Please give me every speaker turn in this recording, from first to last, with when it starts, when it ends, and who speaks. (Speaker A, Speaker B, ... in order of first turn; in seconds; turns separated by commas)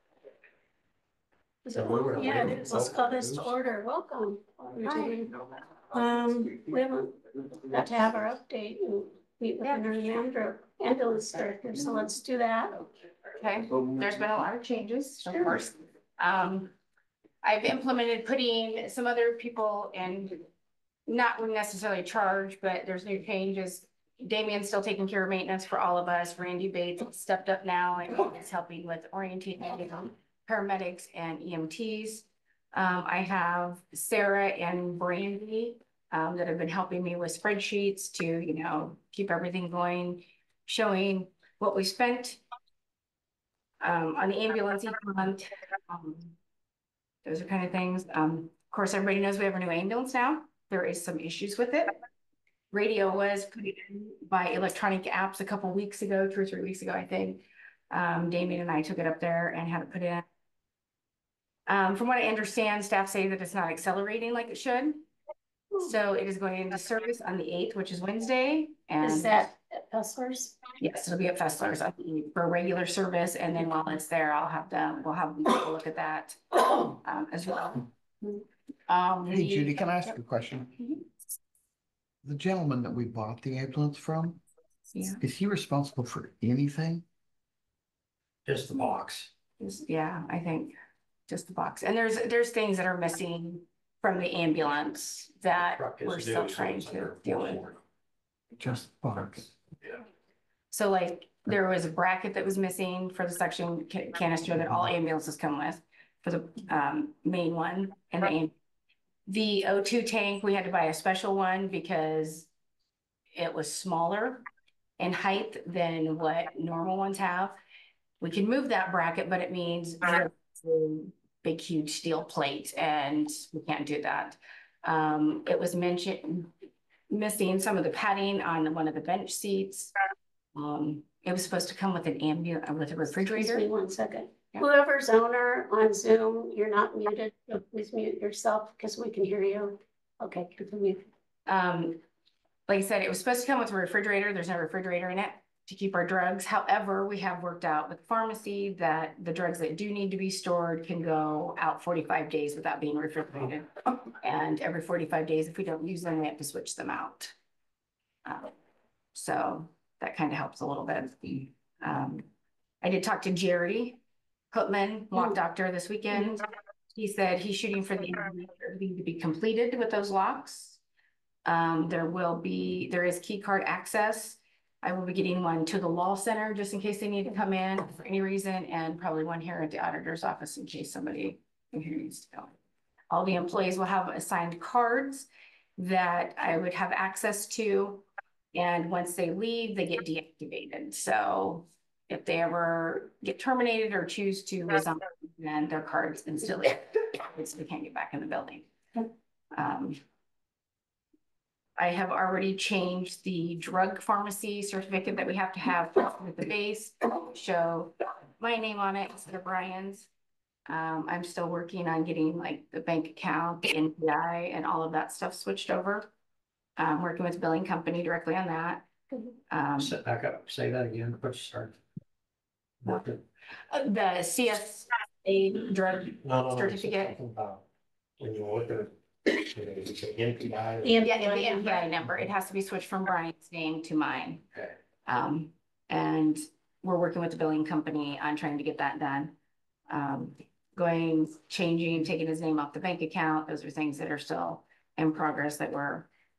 Speaker A: 1.6-5.3, Speaker B: 1.7-3.5, Speaker A: 5.9-12.8, Speaker C: 9.6-9.9, Speaker C: 13.3-16.7, Speaker C: 17.4-20.4, Speaker C: 21.1-42.4, Speaker C: 43.8-46.3, Speaker C: 47.2-52.0, Speaker C: 52.7-60.2, Speaker C: 61.7-65.0, Speaker C: 65.8-69.4, Speaker A: 69.0-70.6, Speaker C: 70.8-77.9, Speaker C: 78.9-80.1, Speaker D: 79.3-80.7, Speaker C: 80.8-81.0, Speaker D: 82.2-84.4, Speaker C: 84.9-85.2, Speaker D: 85.2-87.0, Speaker B: 88.5-89.3, Speaker C: 89.6-90.8, Speaker C: 91.3-97.6, Speaker B: 95.6-97.8, Speaker D: 98.6-99.5, Speaker C: 100.7-108.5, Speaker C: 109.2-112.5, Speaker C: 113.3-114.4, Speaker C: 115.0-117.6, Speaker C: 118.2-126.5, Speaker C: 127.1-129.9, Speaker C: 130.5-133.7, Speaker A: 133.3-141.0, Speaker C: 141.5-142.0, Speaker C: 142.7-157.3, Speaker C: 158.2-158.5, Speaker C: 159.1-162.3, Speaker C: 162.8-164.0, Speaker C: 164.5-170.8, Speaker C: 171.4-182.5, Speaker C: 183.1-198.7, Speaker C: 199.5-200.0, Speaker C: 201.8-210.1, Speaker C: 210.7-216.1, Speaker C: 216.8-218.9, Speaker C: 219.5-219.9, Speaker B: 219.8-221.8, Speaker B: 222.8-223.2, Speaker C: 223.7-227.2, Speaker B: 226.2-227.6, Speaker B: 228.2-230.9, Speaker A: 230.8-231.7, Speaker C: 231.0-234.4, Speaker C: 235.1-239.3, Speaker C: 239.9-246.1